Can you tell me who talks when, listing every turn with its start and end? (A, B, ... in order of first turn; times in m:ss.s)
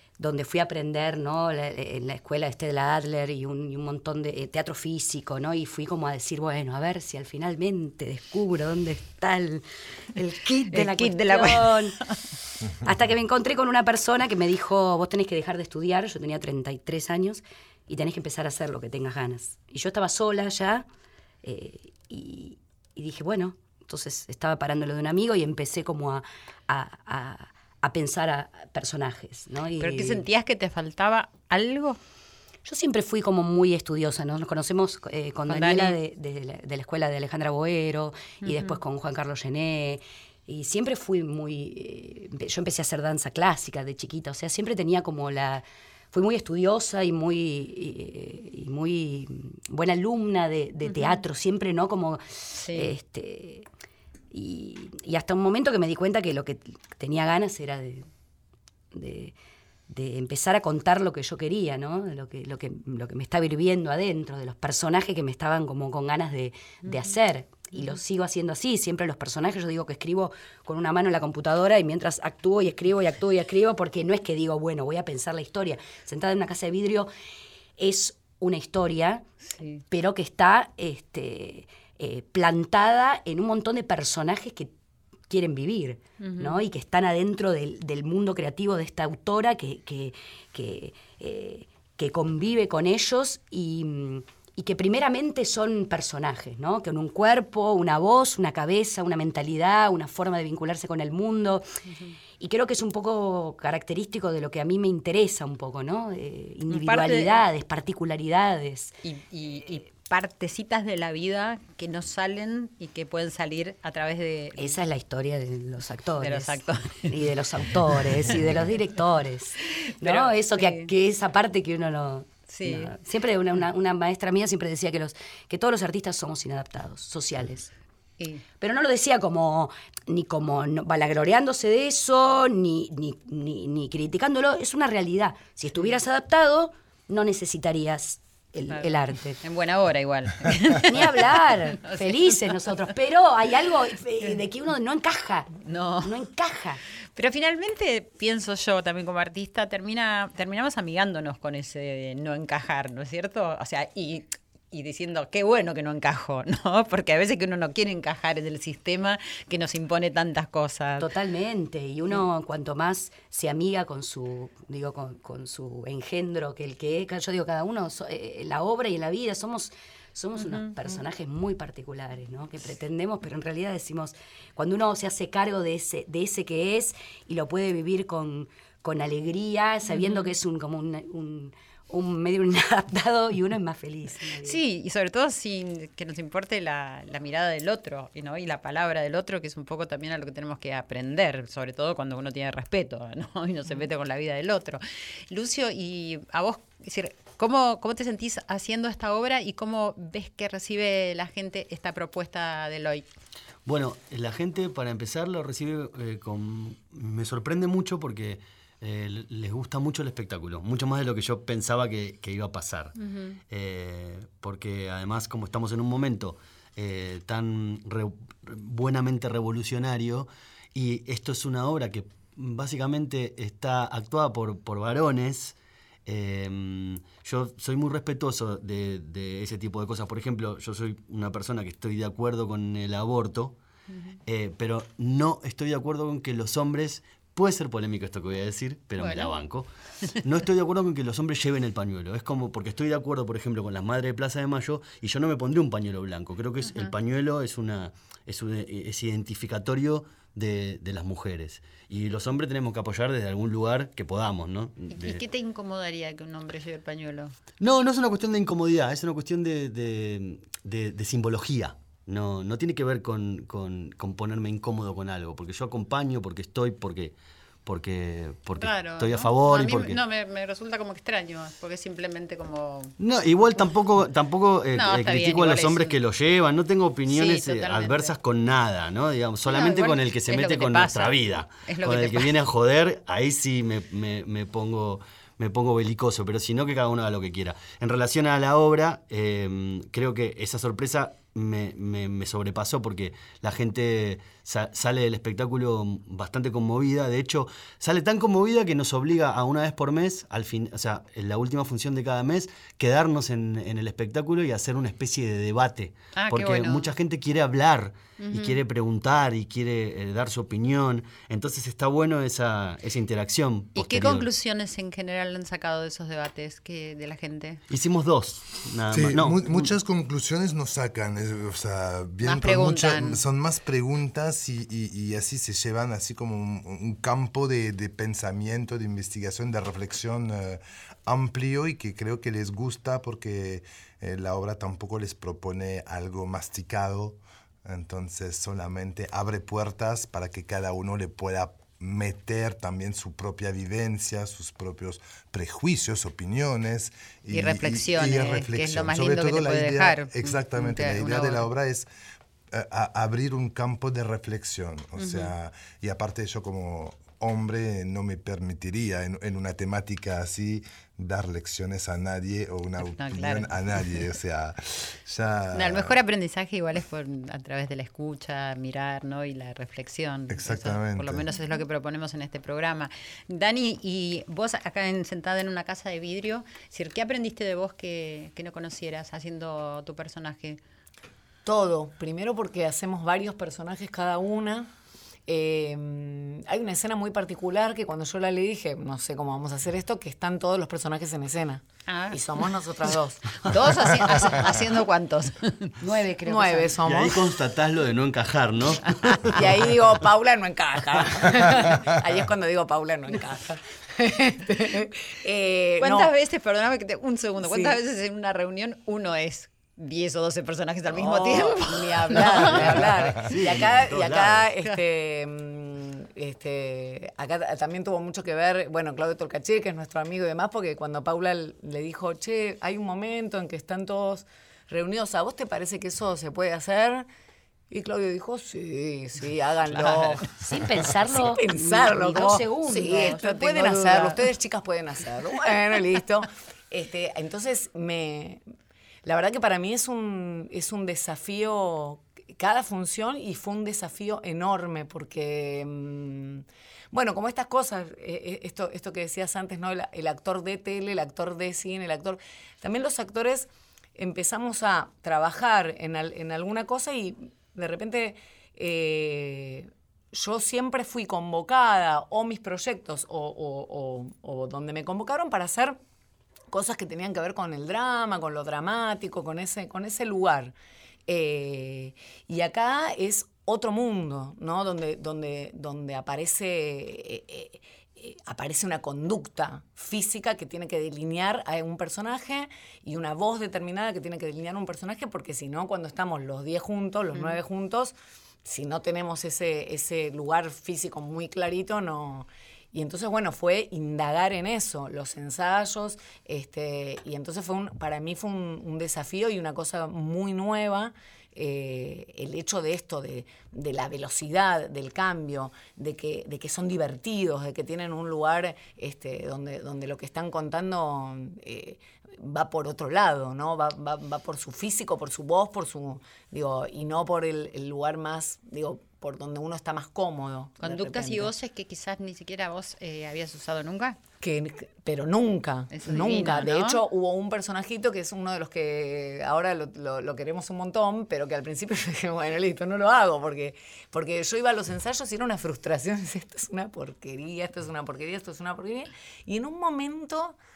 0:00.2-0:09.6 A
0:10.1-0:12.0 A
0:10.7-0:12.2 B
0:12.8-0:20.8 A
0:21.4-0:30.2 A
0:29.8-0:32.0 B
0:32.6-0:53.6 A
0:35.5-0:36.0 B
0:38.4-0:38.8 B
0:50.8-0:51.2 B
0:52.5-0:52.9 B
0:54.3-0:58.1 A
0:58.9-0:59.3 A
0:59.9-1:17.1 A
1:06.8-1:07.1 B
1:07.7-1:08.0 B
1:17.8-1:19.2 A
1:19.5-1:19.8 B
1:19.9-1:24.7 A
1:25.3-1:41.6 A
1:26.2-1:26.6 B
1:41.9-1:42.1 B
1:42.4-1:48.9 A
1:46.7-1:47.4 B
1:49.0-1:54.8 B
1:54.6-2:07.7 A
1:56.2-1:57.2 B
2:00.0-2:00.9 B
2:02.5-2:02.9 B
2:08.2-2:08.4 B
2:08.6-2:19.4 A
2:18.7-2:22.7 B
2:20.8-2:26.8 A
2:25.6-2:26.2 B
2:27.2-2:41.1 B
2:41.0-3:04.6 A
2:50.4-2:50.7 B
2:59.9-3:00.3 B
3:04.4-3:23.1 B
3:23.6-3:33.0 C
3:33.0-3:33.4 B
3:33.5-3:53.6 C
3:53.9-3:54.1 B
3:54.2-3:59.7 C
3:59.0-3:59.3 B
4:00.2-4:15.2 C
4:06.6-4:06.9 B
4:14.9-4:17.4 B
4:17.6-4:30.0 C
4:28.6-4:32.9 B
4:33.0-5:14.3 C
4:34.7-4:36.0 B
4:37.1-4:38.2 B
4:39.4-4:42.4 B
5:06.2-5:06.9 B
5:08.2-5:08.6 B
5:13.7-5:17.6 B
5:17.7-5:19.7 C
5:18.9-5:51.9 D
5:22.2-5:23.2 B
5:47.3-5:51.5 B
5:52.5-6:06.0 D
5:55.0-5:55.3 B
6:02.8-6:03.9 B
6:05.5-6:20.6 B
6:10.3-6:11.2 D
6:21.4-6:24.7 E
6:25.3-6:33.4 E
6:31.9-6:32.2 B
6:33.4-6:35.7 B
6:35.8-6:36.8 A
6:36.2-6:37.4 E
6:36.8-6:39.6 C
6:39.3-6:46.1 E
6:45.8-6:52.8 B
6:47.4-6:47.8 E
6:50.9-7:07.0 E
6:52.3-6:54.5 C
7:07.7-7:18.4 E
7:09.7-7:10.2 B
7:10.3-7:14.1 A
7:12.8-7:14.2 B
7:19.0-7:45.8 E
7:46.5-7:50.5 E
7:51.1-8:41.3 E
8:07.1-8:07.4 B
8:40.6-8:44.0 B
8:44.2-9:00.4 E
8:45.7-8:46.8 B